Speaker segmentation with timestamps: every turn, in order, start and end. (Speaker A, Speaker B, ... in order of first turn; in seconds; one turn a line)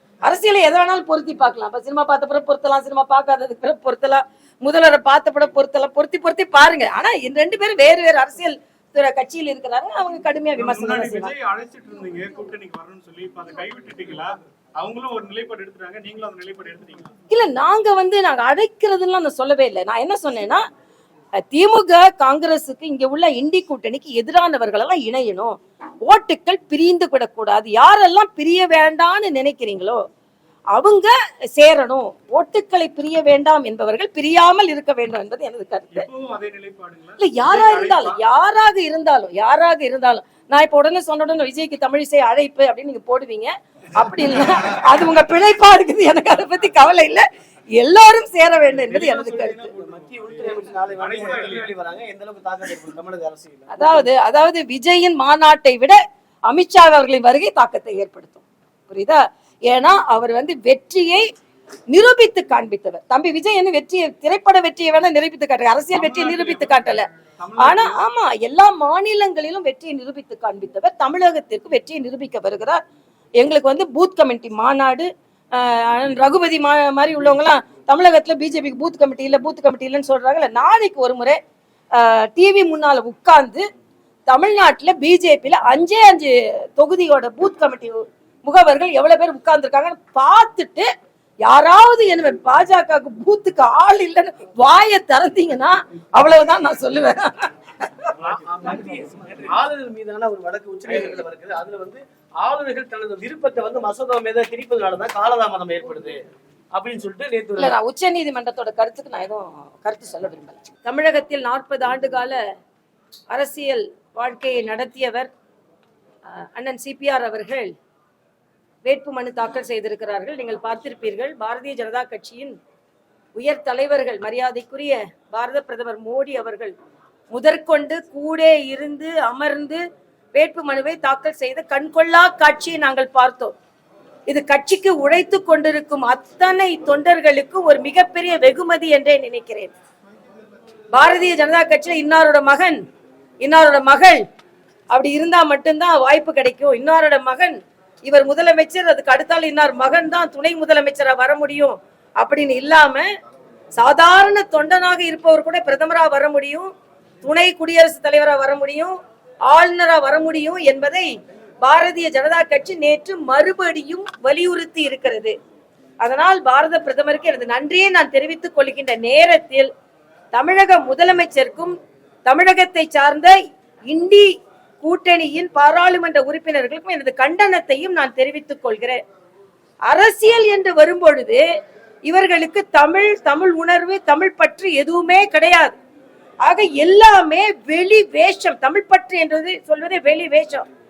Speaker A: 0.2-11.3
Speaker B: 10.6-17.1
Speaker A: 17.3-20.6
Speaker A: 21.4-30.0
Speaker A: 30.7-36.1
Speaker B: 35.9-38.2
Speaker A: 37.2-47.2
Speaker A: 47.8-49.7
Speaker B: 48.7-51.7
Speaker C: 49.7-54.1
Speaker A: 53.7-61.3
Speaker A: 61.9-67.1
Speaker B: 65.9-68.0
Speaker A: 67.6-72.8
Speaker A: 73.4-81.4
Speaker A: 82.0-83.6
Speaker A: 84.3-90.9
Speaker A: 91.5-98.1
Speaker B: 98.2-99.5
Speaker C: 98.2-106.2
Speaker A: 100.9-101.2
Speaker C: 106.7-107.8
Speaker A: 107.6-112.4
Speaker A: 113.3-115.3
Speaker A: 116.3-117.7
Speaker A: 118.8-122.6
Speaker A: 123.4-126.7
Speaker A: 127.3-129.8
Speaker A: 130.3-133.6
Speaker A: 134.3-139.7
Speaker A: 140.9-142.8
Speaker A: 143.4-144.2
Speaker A: 144.9-153.1
Speaker A: 153.8-156.7
Speaker A: 157.2-158.9
Speaker A: 159.5-161.1
Speaker A: 161.6-165.3
Speaker A: 166.0-169.7
Speaker A: 170.3-171.8
Speaker A: 172.3-173.3
Speaker A: 173.9-174.3
Speaker A: 174.8-179.0
Speaker A: 179.9-181.4
Speaker A: 182.1-185.8
Speaker A: 186.4-190.7